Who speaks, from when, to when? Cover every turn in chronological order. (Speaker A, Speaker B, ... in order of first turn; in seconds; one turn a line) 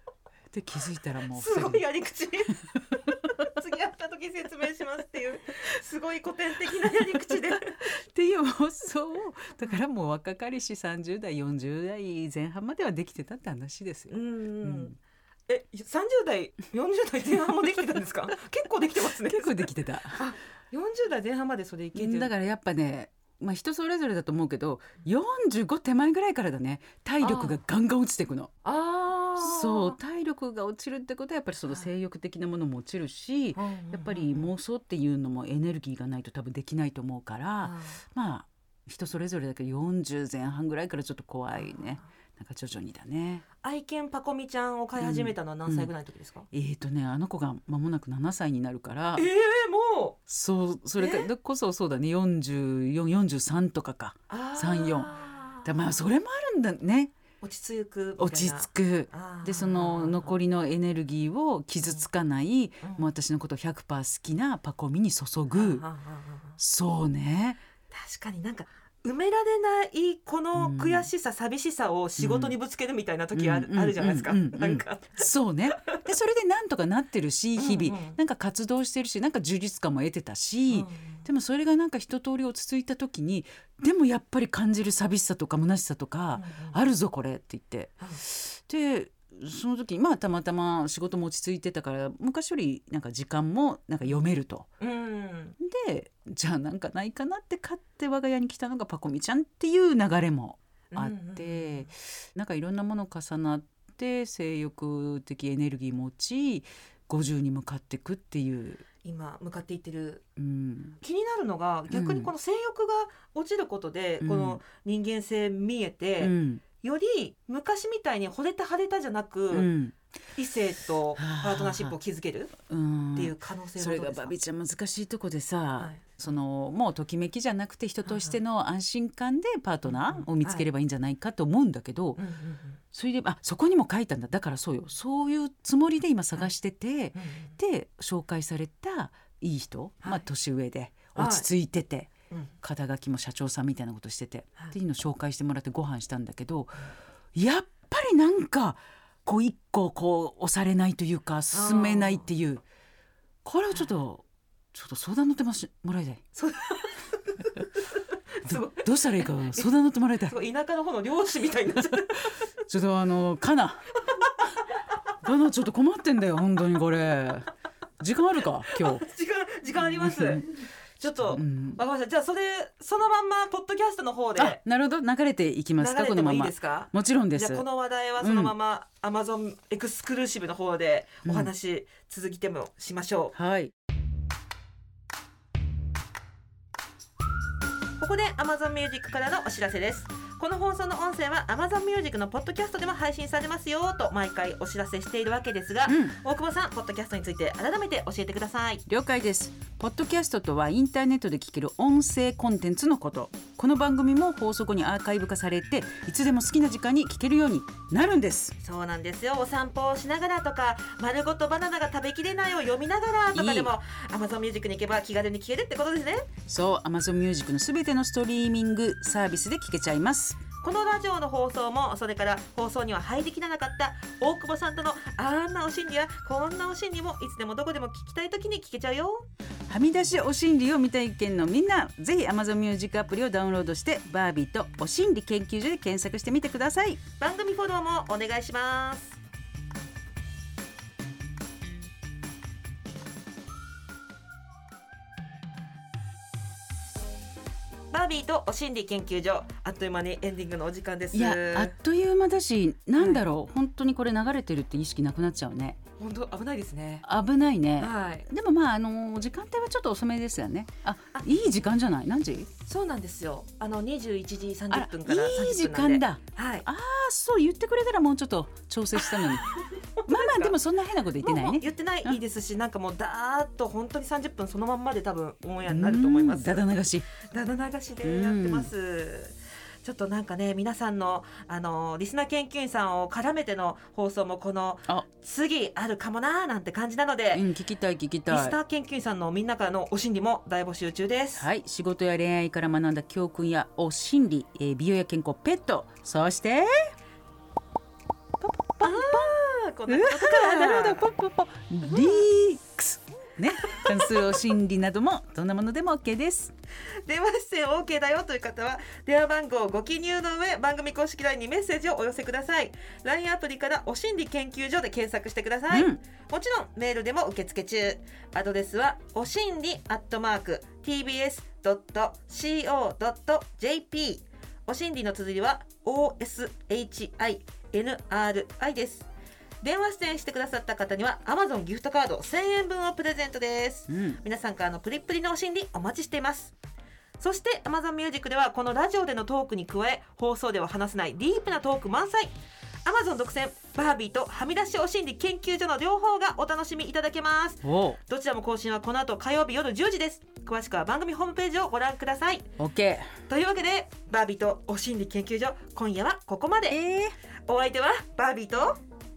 Speaker A: 0.5-1.9
Speaker B: 1.3-2.6
Speaker B: 3.3-7.8
Speaker A: 7.8-14.9
Speaker B: 14.1-14.9
Speaker B: 15.5-22.3
Speaker A: 19.2-20.2
Speaker A: 21.9-28.5
Speaker B: 27.2-27.6
Speaker B: 28.6-30.0
Speaker A: 29.4-43.4
Speaker B: 33.5-34.5
Speaker B: 37.6-38.0
Speaker B: 41.6-42.0
Speaker B: 43.6-46.5
Speaker A: 45.0-45.9
Speaker A: 46.5-49.3
Speaker B: 49.1-50.2
Speaker A: 50.3-57.1
Speaker B: 51.0-51.3
Speaker B: 54.3-55.7
Speaker B: 57.4-60.3
Speaker A: 58.2-65.8
Speaker B: 65.5-66.6
Speaker A: 66.6-67.6
Speaker B: 67.9-75.3
Speaker A: 70.5-71.1
Speaker A: 72.2-72.5
Speaker A: 73.3-94.7
Speaker B: 77.6-78.2
Speaker B: 80.7-81.2
Speaker B: 86.3-86.8
Speaker B: 94.8-95.5
Speaker A: 95.6-108.8
Speaker B: 100.9-101.9
Speaker B: 109.0-110.2
Speaker A: 110.4-111.0
Speaker B: 111.0-119.7
Speaker A: 111.9-112.3
Speaker A: 114.2-114.6
Speaker A: 116.2-116.6
Speaker A: 119.5-120.1
Speaker B: 120.3-122.5
Speaker A: 121.2-122.0
Speaker A: 122.6-132.2
Speaker B: 123.1-124.3
Speaker B: 128.0-128.4
Speaker B: 129.9-130.6
Speaker B: 132.2-132.8
Speaker A: 132.9-152.6
Speaker B: 137.1-137.5
Speaker B: 141.1-141.5
Speaker B: 151.5-152.3
Speaker A: 153.4-156.3
Speaker B: 156.3-157.0
Speaker B: 158.4-159.7
Speaker A: 158.4-160.3
Speaker B: 160.2-162.3
Speaker A: 162.7-164.0
Speaker A: 165.2-169.1
Speaker B: 168.9-170.5
Speaker A: 169.8-170.4
Speaker B: 171.0-174.6
Speaker A: 171.2-171.8
Speaker A: 174.3-177.6
Speaker B: 175.8-183.3
Speaker A: 178.2-178.5
Speaker A: 181.2-181.5
Speaker A: 183.3-183.7
Speaker B: 188.0-198.8
Speaker A: 195.8-196.2
Speaker A: 198.9-208.6
Speaker B: 208.6-216.3
Speaker A: 213.3-213.7
Speaker A: 216.4-220.4
Speaker B: 220.6-229.2
Speaker A: 229.7-237.0
Speaker B: 237.2-239.2
Speaker B: 247.9-251.7
Speaker A: 251.1-255.8
Speaker B: 253.0-253.2
Speaker B: 256.0-257.0
Speaker A: 257.0-262.5
Speaker B: 257.8-258.2
Speaker B: 262.6-266.7
Speaker A: 264.7-269.5
Speaker B: 270.0-270.6
Speaker A: 270.1-272.2
Speaker B: 271.2-276.6
Speaker A: 275.6-277.1
Speaker B: 277.2-287.5
Speaker A: 278.0-278.7
Speaker A: 287.3-288.6
Speaker B: 288.3-291.5
Speaker A: 291.4-296.9
Speaker A: 298.4-299.3
Speaker B: 298.8-301.0
Speaker A: 299.9-306.5
Speaker B: 301.8-302.2
Speaker B: 303.6-303.9
Speaker B: 307.0-329.1
Speaker A: 315.7-316.0
Speaker B: 329.6-336.5
Speaker A: 333.9-334.2
Speaker B: 337.2-352.5
Speaker A: 347.6-348.0
Speaker A: 352.6-353.1
Speaker B: 353.3-356.8
Speaker A: 356.7-357.1
Speaker B: 357.4-358.8